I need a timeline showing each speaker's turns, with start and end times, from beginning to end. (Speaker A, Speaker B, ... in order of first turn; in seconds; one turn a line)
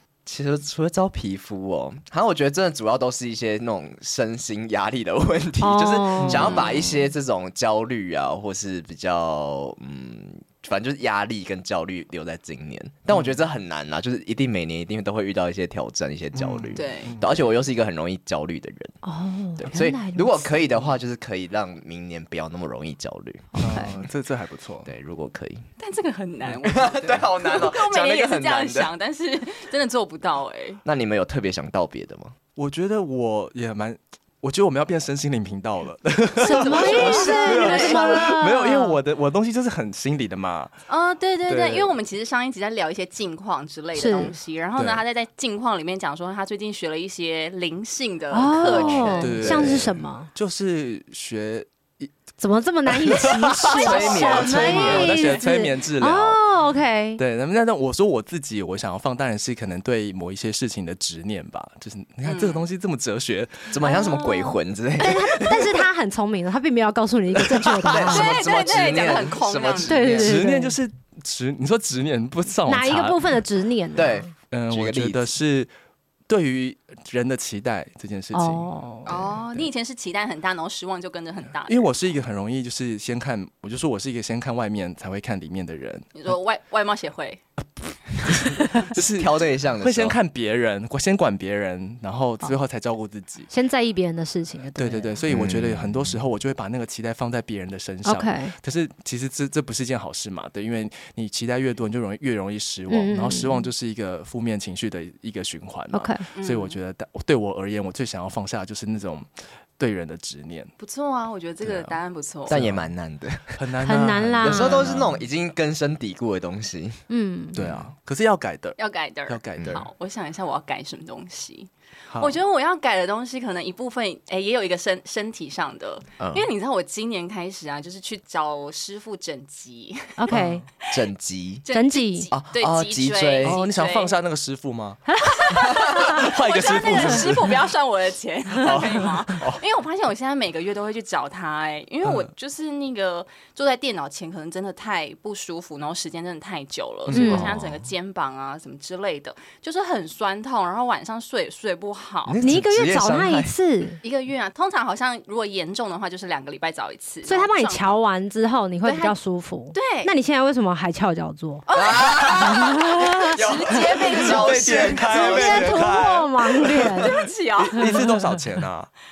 Speaker A: 0.2-18.9
Speaker B: 5.6-6.9
Speaker C: 6.2-6.5
Speaker D: 6.4-6.8
Speaker C: 16.3-17.3
Speaker D: 16.7-17.2
Speaker B: 19.0-20.5
Speaker A: 19.6-24.0
Speaker B: 23.5-24.0
Speaker C: 23.6-24.9
Speaker A: 24.9-25.6
Speaker D: 25.8-30.8
Speaker A: 26.6-28.9
Speaker A: 30.8-32.3
Speaker C: 32.5-40.7
Speaker D: 36.4-38.2
Speaker B: 36.4-39.0
Speaker A: 36.9-37.7
Speaker D: 40.9-49.6
Speaker C: 41.5-41.9
Speaker B: 43.9-44.3
Speaker C: 44.8-45.0
Speaker B: 48.3-50.3
Speaker C: 48.7-52.1
Speaker B: 52.4-57.2
Speaker C: 52.9-56.4
Speaker A: 53.7-55.4
Speaker C: 57.2-63.7
Speaker D: 62.2-62.6
Speaker A: 63.7-65.8
Speaker D: 63.8-64.5
Speaker B: 65.0-68.3
Speaker A: 67.3-70.4
Speaker D: 67.9-70.1
Speaker B: 69.8-70.7
Speaker C: 70.1-73.4
Speaker B: 72.7-74.3
Speaker A: 74.0-75.3
Speaker C: 74.5-75.7
Speaker C: 76.3-79.7
Speaker B: 78.3-79.2
Speaker D: 79.1-81.9
Speaker C: 81.7-86.1
Speaker D: 86.2-87.4
Speaker C: 87.9-93.5
Speaker A: 88.9-90.2
Speaker B: 93.5-95.2
Speaker C: 94.8-110.7
Speaker A: 95.3-96.2
Speaker B: 98.0-98.5
Speaker B: 102.9-103.7
Speaker B: 105.9-106.2
Speaker D: 106.3-106.8
Speaker D: 110.8-112.6
Speaker C: 111.6-112.0
Speaker A: 112.5-113.6
Speaker C: 112.5-112.8
Speaker C: 113.5-115.2
Speaker B: 113.8-114.8
Speaker A: 114.4-117.0
Speaker B: 117.1-117.6
Speaker C: 117.5-119.9
Speaker A: 117.6-117.9
Speaker D: 118.8-130.2
Speaker A: 119.6-119.8
Speaker C: 122.1-122.4
Speaker A: 126.2-126.5
Speaker B: 130.2-130.6
Speaker C: 130.3-130.6
Speaker A: 130.9-131.6
Speaker D: 131.6-134.1
Speaker B: 131.7-132.3
Speaker A: 132.3-133.6
Speaker C: 133.4-135.0
Speaker B: 135.1-136.2
Speaker C: 135.9-137.6
Speaker D: 135.9-152.4
Speaker C: 138.6-139.6
Speaker C: 142.0-142.3
Speaker C: 147.1-147.6
Speaker B: 147.1-147.5
Speaker A: 152.2-153.5
Speaker B: 152.4-154.0
Speaker D: 154.0-157.9
Speaker B: 157.2-161.6
Speaker D: 158.8-159.2
Speaker D: 159.7-160.1
Speaker D: 161.7-165.3
Speaker A: 161.7-166.1
Speaker B: 162.3-164.0
Speaker C: 164.2-168.9
Speaker B: 165.1-167.2
Speaker D: 167.1-168.0